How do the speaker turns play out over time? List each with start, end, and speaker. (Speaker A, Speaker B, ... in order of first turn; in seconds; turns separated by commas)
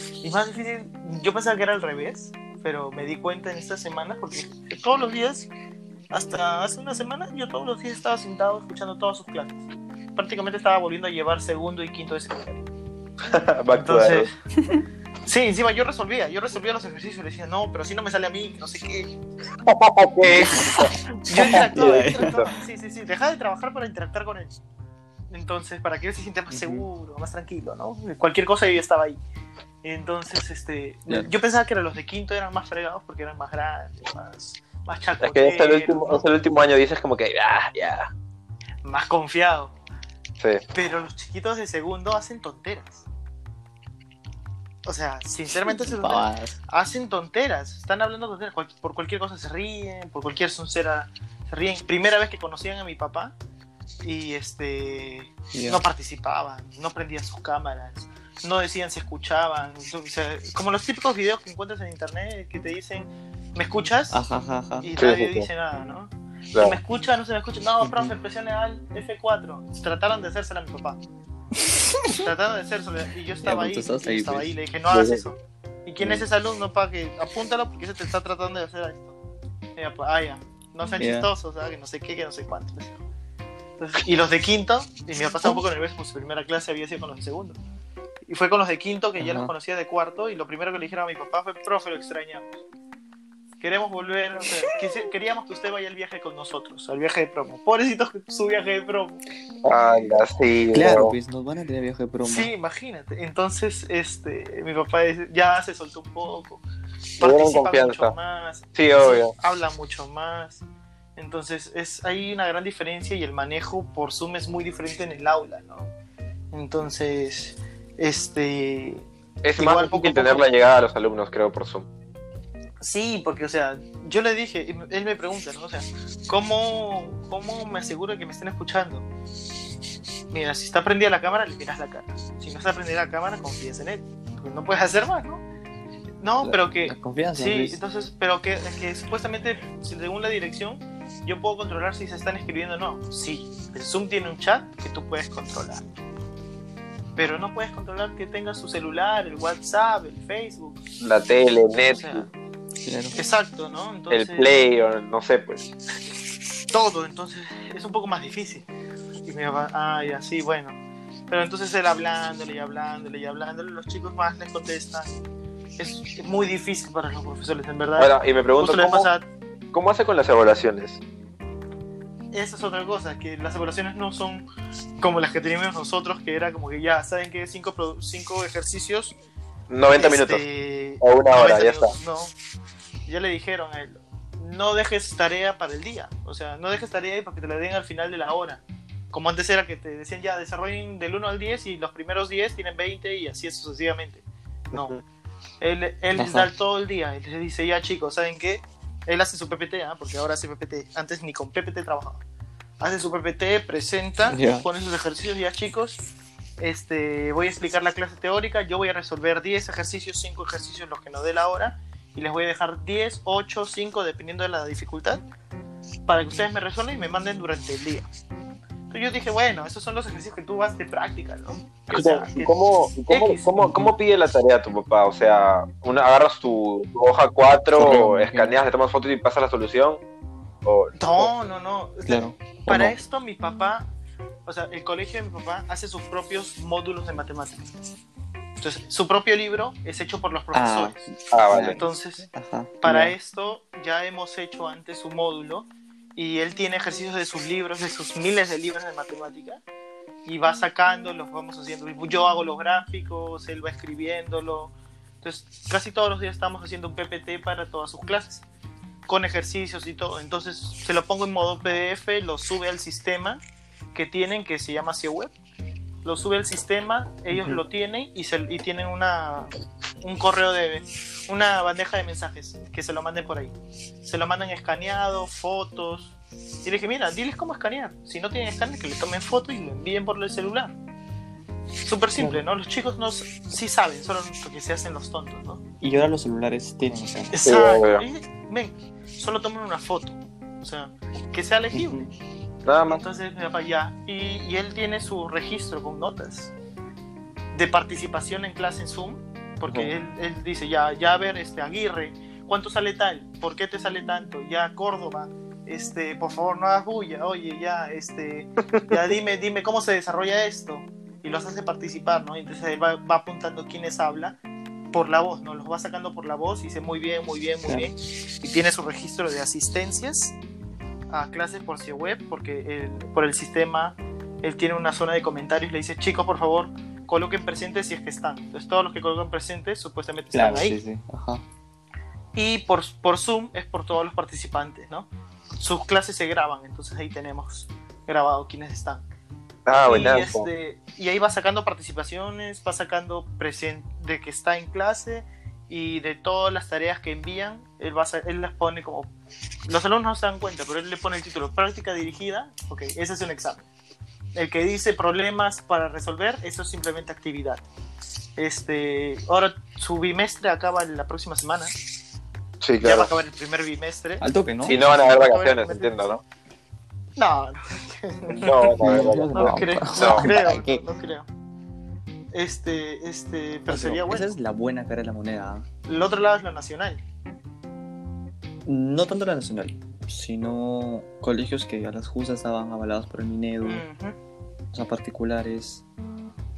Speaker A: 0.2-5.5, Speaker A: 6.1-9.6, Speaker A: 10.2-12.6, Speaker B: 13.2-14.3, Speaker A: 13.7-14.3, Speaker C: 14.6-14.8, Speaker A: 15.3-19.1, Speaker B: 19.7-22.5, Speaker C: 20.3-22.3, Speaker A: 21.3-24.6, Speaker A: 25.3-29.2, Speaker C: 26.5-26.9, Speaker A: 29.8-36.3, Speaker B: 35.2-38.1, Speaker A: 38.8-39.7, Speaker A: 40.7-43.0, Speaker A: 44.9-53.4, Speaker C: 45.7-46.6, Speaker A: 54.0-64.2, Speaker C: 55.5-55.8, Speaker C: 64.1-64.9, Speaker A: 64.8-71.0, Speaker B: 65.0-65.5, Speaker B: 66.5-66.8, Speaker C: 67.8-68.1, Speaker C: 71.7-72.3, Speaker A: 72.1-79.2, Speaker C: 73.4-74.5, Speaker B: 74.9-75.2, Speaker A: 79.8-83.0, Speaker C: 81.0-81.3, Speaker A: 83.8-87.6, Speaker A: 88.3-92.6, Speaker C: 89.2-89.5, Speaker A: 93.6-99.2, Speaker B: 99.7-101.1, Speaker C: 100.7-102.5, Speaker A: 102.2-106.6, Speaker A: 107.2-110.6, Speaker B: 107.2-108.1, Speaker B: 108.8-109.3, Speaker A: 111.2-115.9, Speaker A: 116.5-119.0, Speaker B: 119.4-121.9, Speaker A: 119.6-120.5, Speaker A: 122.8-129.1, Speaker A: 130.3-135.4, Speaker A: 136.2-145.8, Speaker C: 136.4-137.8, Speaker A: 147.2-150.8, Speaker B: 151.0-152.3, Speaker A: 151.9-152.3, Speaker C: 152.8-153.2, Speaker A: 153.2-154.5, Speaker B: 154.1-155.7, Speaker A: 156.7-158.7, Speaker A: 159.3-160.8, Speaker A: 161.3-165.2, Speaker A: 165.8-169.2, Speaker B: 168.0-169.1, Speaker B: 169.7-171.0, Speaker A: 172.3-174.5, Speaker A: 175.0-179.2, Speaker B: 179.7-180.4, Speaker A: 179.9-182.3, Speaker B: 181.0-181.9, Speaker A: 183.1-195.0, Speaker A: 195.6-202.2, Speaker C: 196.2-196.5, Speaker A: 202.8-206.0, Speaker C: 204.3-204.7, Speaker A: 206.6-215.2, Speaker A: 216.1-218.1, Speaker A: 218.9-222.6, Speaker B: 221.9-230.0, Speaker A: 223.1-223.5, Speaker C: 223.6-223.9, Speaker C: 227.8-228.5, Speaker B: 230.6-231.3, Speaker A: 231.0-233.9, Speaker C: 232.1-232.9, Speaker A: 234.5-237.7, Speaker A: 238.6-241.0, Speaker C: 240.5-243.2, Speaker B: 241.3-241.8, Speaker A: 241.8-242.3, Speaker A: 242.8-249.6, Speaker A: 250.2-258.4, Speaker A: 259.1-263.4, Speaker A: 263.9-265.3, Speaker A: 266.1-269.5, Speaker C: 267.3-267.6, Speaker A: 270.0-280.8, Speaker A: 281.8-285.6, Speaker C: 282.2-282.4, Speaker C: 285.8-287.3, Speaker A: 287.3-292.1, Speaker B: 287.4-288.1, Speaker C: 291.7-292.1, Speaker B: 292.6-293.0, Speaker A: 292.9-296.5, Speaker A: 297.5-314.4, Speaker A: 314.9-320.4, Speaker A: 321.1-330.8, Speaker C: 330.3-331.4, Speaker A: 332.4-335.1, Speaker A: 335.6-339.0, Speaker B: 339.7-340.5, Speaker A: 339.8-349.1, Speaker A: 349.7-353.7, Speaker A: 354.4-357.6, Speaker A: 358.4-361.7, Speaker B: 362.6-363.1, Speaker A: 362.8-366.1, Speaker C: 364.2-364.8, Speaker B: 364.7-366.2, Speaker A: 367.2-371.3, Speaker C: 368.3-370.8, Speaker B: 368.4-370.3, Speaker A: 372.3-374.3, Speaker C: 373.7-375.7, Speaker A: 375.9-377.0, Speaker C: 378.7-383.9, Speaker A: 383.6-384.2, Speaker C: 384.7-385.9